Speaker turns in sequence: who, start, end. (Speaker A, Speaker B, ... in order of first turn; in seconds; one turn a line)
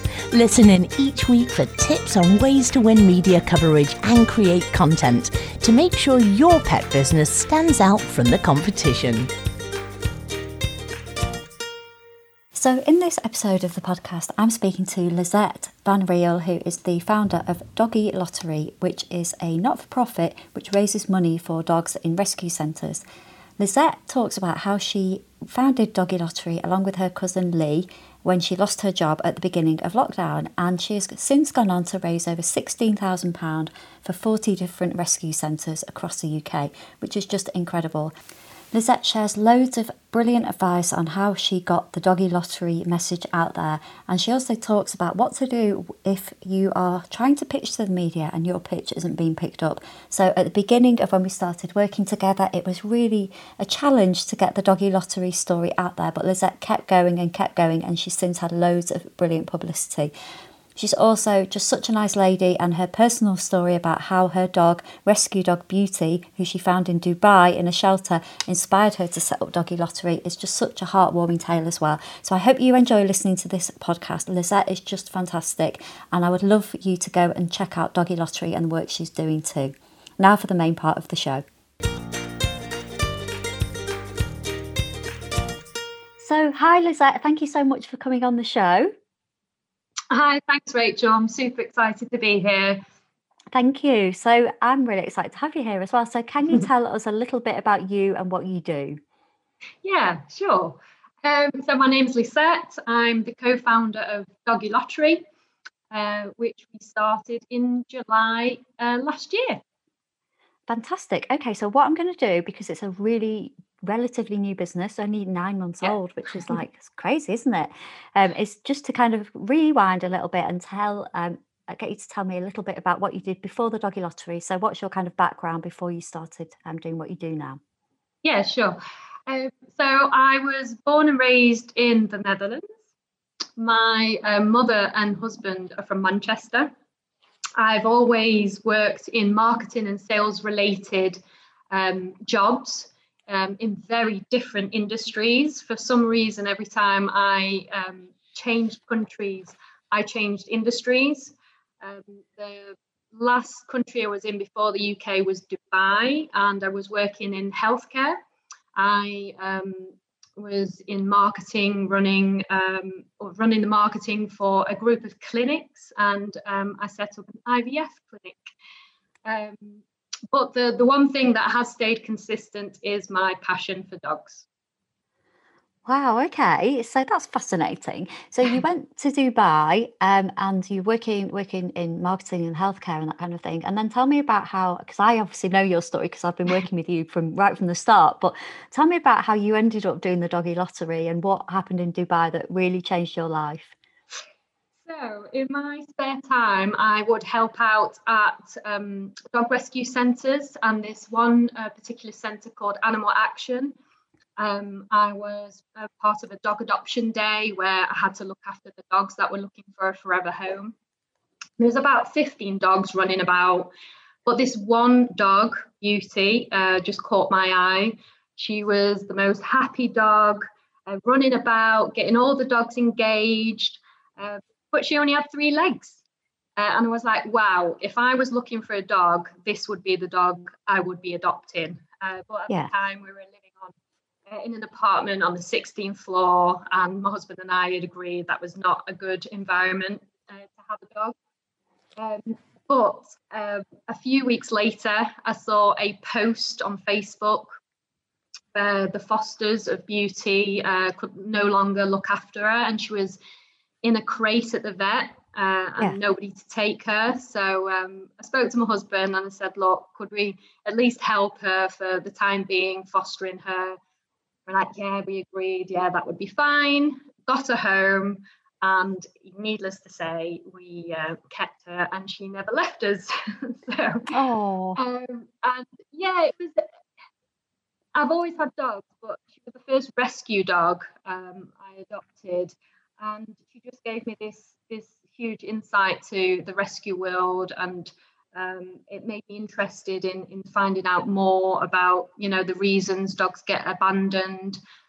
Speaker A: 0.3-9.3
Speaker B: 12.5-23.0
Speaker B: 23.6-38.1
Speaker B: 38.7-60.1
Speaker B: 60.8-81.4
Speaker B: 86.2-88.9
Speaker C: 90.1-92.8
Speaker B: 93.5-99.0
Speaker C: 99.8-105.2
Speaker C: 105.9-109.6
Speaker B: 110.7-127.6
Speaker C: 128.2-132.8
Speaker C: 133.6-136.7
Speaker C: 137.6-141.2
Speaker C: 141.7-158.2
Speaker C: 158.8-168.4
Speaker C: 169.2-174.4
Speaker B: 175.8-193.7
Speaker C: 194.8-203.7
Speaker C: 204.4-210.7
Speaker C: 211.6-213.7
Speaker C: 214.2-226.0
Speaker C: 226.6-233.7
Speaker C: 234.3-241.1
Speaker C: 242.0-247.6
Speaker C: 248.5-253.2
Speaker C: 253.8-263.8
Speaker C: 264.5-274.1
Speaker B: 274.1-274.8
Speaker C: 274.8-276.6
Speaker C: 277.9-294.6